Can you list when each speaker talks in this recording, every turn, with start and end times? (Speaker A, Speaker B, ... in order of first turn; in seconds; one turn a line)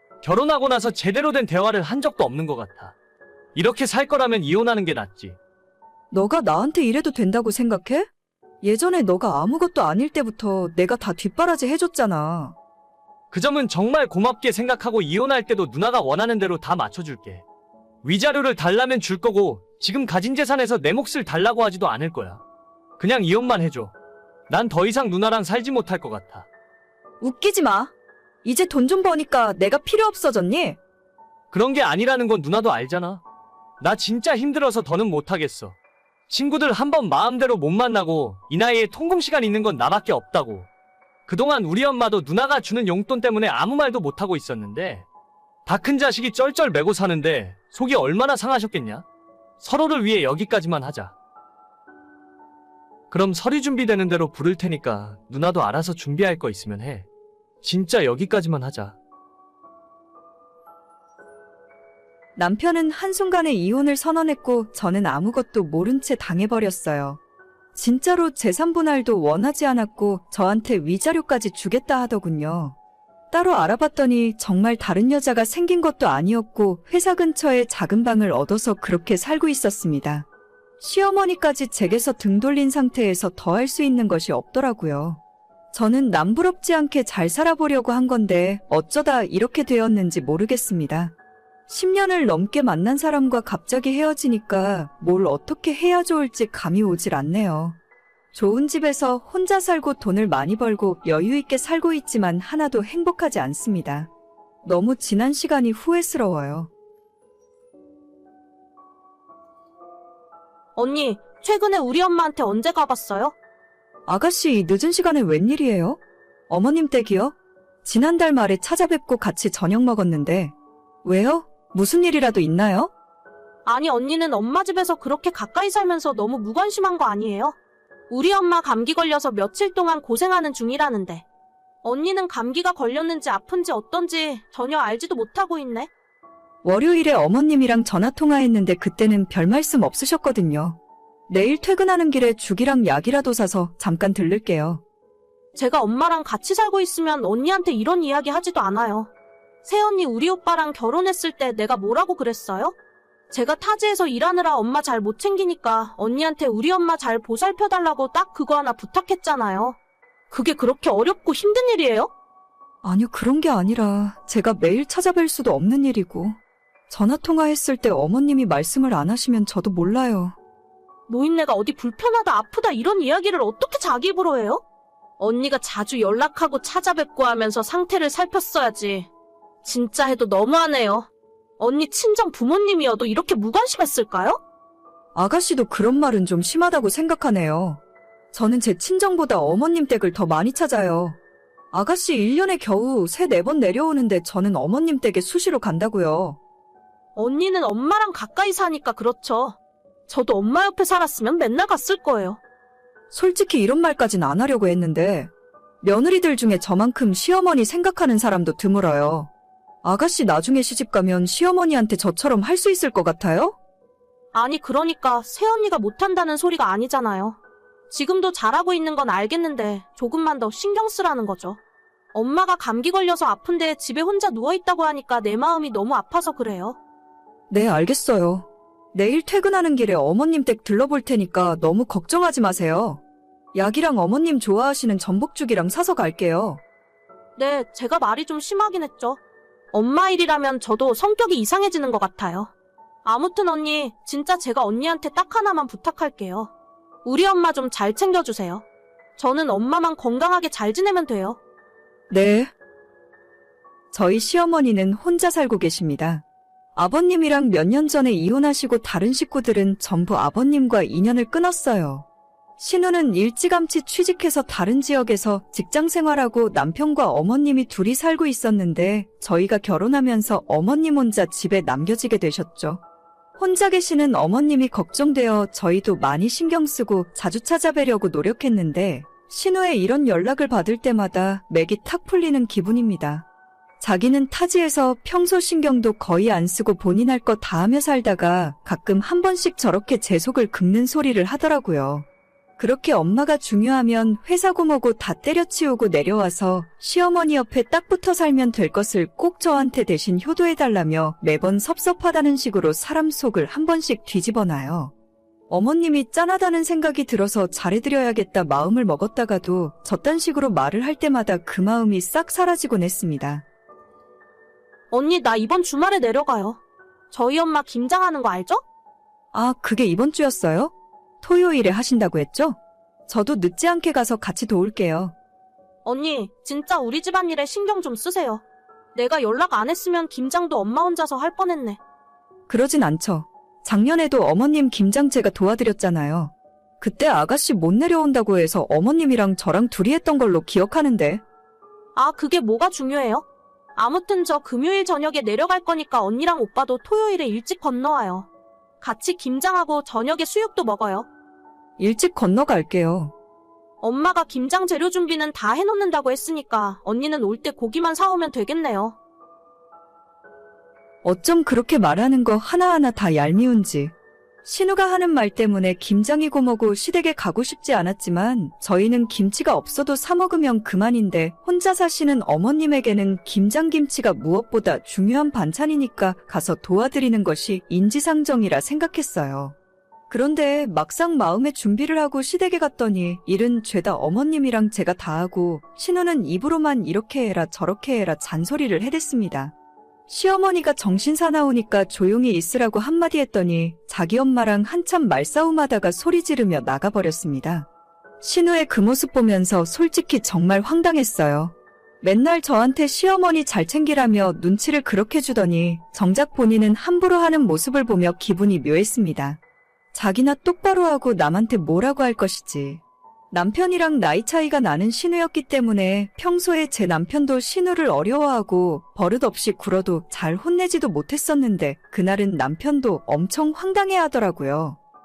Speaker A: 0.2-3.0
Speaker A: 3.5-5.4
Speaker B: 6.1-8.1
Speaker B: 8.6-12.6
Speaker A: 13.3-17.4
Speaker A: 18.0-22.4
Speaker A: 23.0-23.9
Speaker A: 24.5-26.5
Speaker B: 27.2-27.9
Speaker B: 28.4-30.8
Speaker A: 31.5-33.2
Speaker A: 33.8-35.8
Speaker A: 36.3-40.7
Speaker A: 41.3-45.0
Speaker A: 45.7-49.0
Speaker A: 49.6-51.1
Speaker A: 53.1-57.1
Speaker A: 57.6-59.0
Speaker B: 62.4-67.2
Speaker B: 67.8-72.8
Speaker B: 73.3-80.2
Speaker B: 80.8-85.2
Speaker B: 85.7-91.1
Speaker B: 91.7-97.8
Speaker B: 98.3-104.1
Speaker B: 104.6-106.7
Speaker C: 110.8-113.3
Speaker B: 114.1-120.5
Speaker B: 121.0-122.9
Speaker C: 123.7-127.5
Speaker C: 128.1-131.2
Speaker C: 131.8-135.9
Speaker B: 136.6-140.8
Speaker B: 141.3-144.8
Speaker C: 145.6-149.1
Speaker C: 149.6-152.7
Speaker C: 153.3-159.8
Speaker C: 160.3-162.1
Speaker B: 162.8-166.4
Speaker B: 166.9-170.4
Speaker C: 171.1-174.6
Speaker C: 175.2-179.1
Speaker C: 179.6-181.1
Speaker C: 181.6-184.4
Speaker B: 185.2-187.8
Speaker B: 188.3-191.2
Speaker B: 191.7-196.4
Speaker C: 197.2-199.6
Speaker C: 200.1-202.4
Speaker B: 203.1-205.3
Speaker B: 205.8-209.3
Speaker B: 209.8-213.6
Speaker C: 214.3-217.4
Speaker C: 217.9-221.6
Speaker C: 222.1-226.8
Speaker B: 227.5-233.0
Speaker B: 233.5-236.6
Speaker C: 237.4-239.2
Speaker C: 239.7-242.5
Speaker C: 243.0-246.5
Speaker C: 247.1-248.6
Speaker C: 249.2-251.4
Speaker B: 252.1-252.5
Speaker B: 253.9-256.2
Speaker B: 256.8-262.1
Speaker B: 262.6-272.8
Speaker B: 273.4-283.3
Speaker B: 283.8-292.1
Speaker B: 292.6-304.9
Speaker B: 305.5-313.4
Speaker C: 314.9-316.6
Speaker C: 317.1-318.6
Speaker B: 319.3-322.6
Speaker B: 323.1-325.1
Speaker C: 325.9-328.4
Speaker C: 328.9-331.8
Speaker B: 332.5-341.2
Speaker C: 341.9-343.2
Speaker C: 343.8-348.3
Speaker C: 348.8-351.1
Speaker B: 351.8-353.1
Speaker C: 353.8-359.0
Speaker B: 361.0-363.9
Speaker B: 364.4-379.5
Speaker B: 380.1-389.5
Speaker B: 390.1-397.7
Speaker B: 398.2-409.4
Speaker B: 409.9-412.8
Speaker B: 413.3-424.8